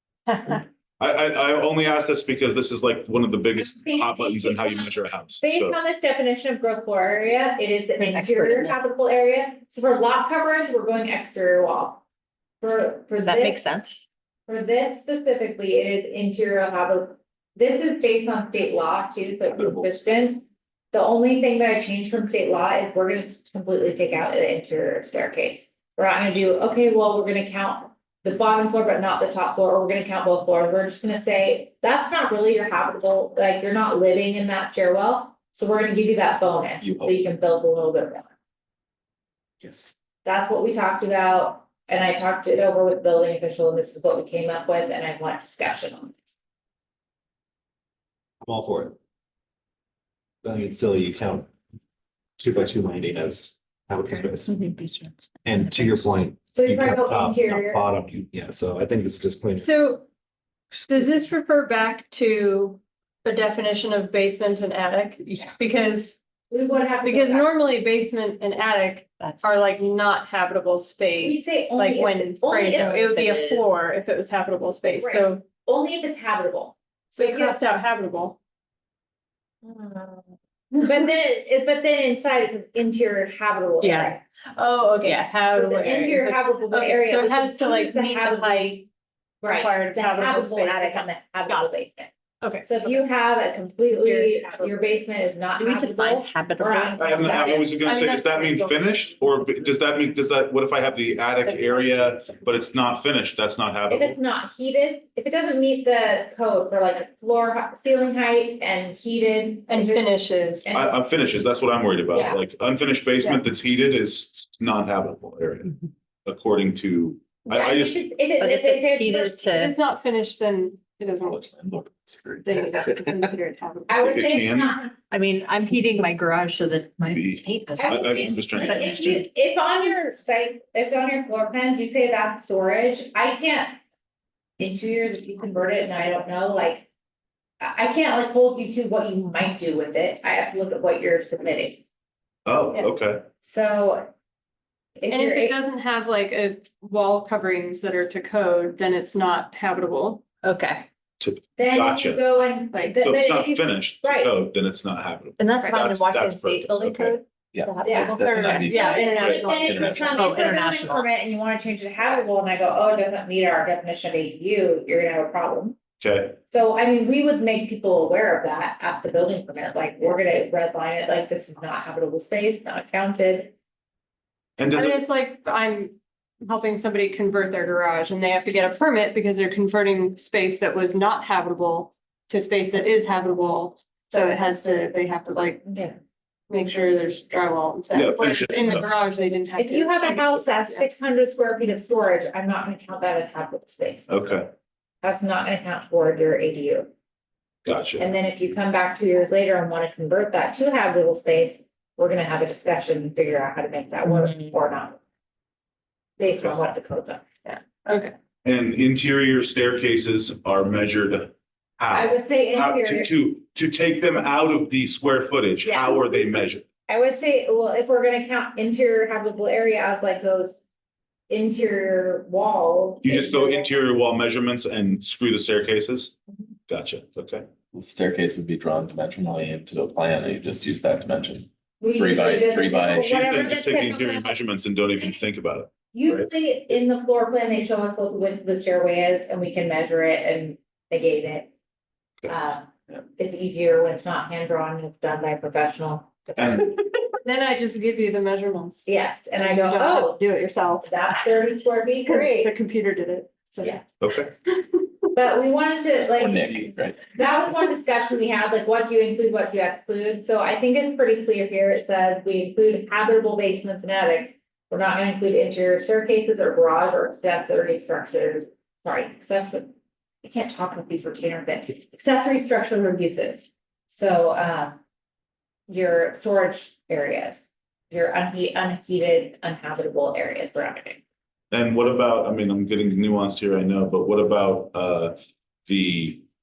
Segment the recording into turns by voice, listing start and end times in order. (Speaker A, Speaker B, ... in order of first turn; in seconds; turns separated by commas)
Speaker A: 0.5-5.8, Speaker B: 3.6-12.0, Speaker C: 8.0-8.8, Speaker B: 12.6-13.6, Speaker C: 13.2-14.1, Speaker B: 14.5-38.3, Speaker D: 19.5-19.9, Speaker D: 36.8-37.2, Speaker D: 39.6-39.9, Speaker B: 40.2-46.3, Speaker E: 48.4-49.0, Speaker E: 50.4-51.5, Speaker E: 52.4-54.6, Speaker C: 54.5-56.0, Speaker E: 55.5-59.7, Speaker B: 56.5-57.9, Speaker F: 59.6-60.1, Speaker F: 60.9-66.2, Speaker B: 66.5-67.5, Speaker F: 67.0-75.4, Speaker C: 69.2-69.5, Speaker B: 71.2-73.0, Speaker C: 72.7-73.7, Speaker B: 75.0-77.6, Speaker F: 77.2-78.4, Speaker B: 79.6-84.2, Speaker C: 83.8-84.2, Speaker F: 84.5-88.9, Speaker C: 85.0-85.4, Speaker B: 85.5-88.8, Speaker B: 89.4-92.1, Speaker F: 89.5-91.7, Speaker F: 92.4-93.0, Speaker B: 92.6-97.7, Speaker C: 93.9-94.9, Speaker C: 95.6-97.6, Speaker A: 97.0-104.2, Speaker F: 97.2-99.2, Speaker F: 101.4-102.5, Speaker B: 103.9-110.9, Speaker F: 109.7-110.7, Speaker A: 110.7-118.0, Speaker B: 117.5-119.5, Speaker C: 118.4-119.7, Speaker F: 119.5-121.5, Speaker D: 121.2-123.3, Speaker F: 122.4-124.3, Speaker B: 123.9-125.0, Speaker A: 124.0-124.8, Speaker C: 125.1-129.3, Speaker A: 127.1-129.1, Speaker B: 127.8-133.8, Speaker B: 134.6-136.9, Speaker B: 137.6-141.8, Speaker A: 142.5-143.2, Speaker B: 143.4-144.1, Speaker B: 145.0-145.6, Speaker F: 145.1-150.2, Speaker C: 150.4-150.9, Speaker A: 151.2-152.2, Speaker B: 151.6-154.4, Speaker A: 153.0-157.2, Speaker C: 155.4-159.4, Speaker D: 157.5-160.2, Speaker B: 157.8-165.8, Speaker F: 158.2-160.5, Speaker C: 159.9-161.1, Speaker A: 166.0-166.4, Speaker B: 166.5-173.5, Speaker A: 174.6-175.0, Speaker F: 174.8-185.7, Speaker B: 184.1-186.0, Speaker F: 186.5-190.8, Speaker B: 186.5-187.0, Speaker A: 187.9-188.9, Speaker B: 189.6-194.1, Speaker A: 194.1-194.5, Speaker B: 195.0-196.9, Speaker A: 197.7-198.1, Speaker B: 198.0-205.0, Speaker B: 206.2-207.2, Speaker F: 207.4-208.1, Speaker A: 208.4-216.6, Speaker B: 211.9-213.1, Speaker B: 215.7-216.2, Speaker B: 216.9-220.6, Speaker B: 221.3-223.8, Speaker A: 223.0-226.1, Speaker A: 226.7-227.5, Speaker D: 227.7-233.2, Speaker B: 231.8-234.4, Speaker A: 233.0-236.3, Speaker B: 235.9-241.5, Speaker B: 242.3-246.8, Speaker A: 246.4-246.7, Speaker F: 247.2-251.2, Speaker B: 248.9-250.2, Speaker B: 250.8-252.5, Speaker F: 252.1-253.9, Speaker A: 254.0-254.3, Speaker B: 255.1-269.7, Speaker D: 255.9-257.1, Speaker B: 270.2-274.8, Speaker B: 275.7-281.0, Speaker A: 281.5-286.2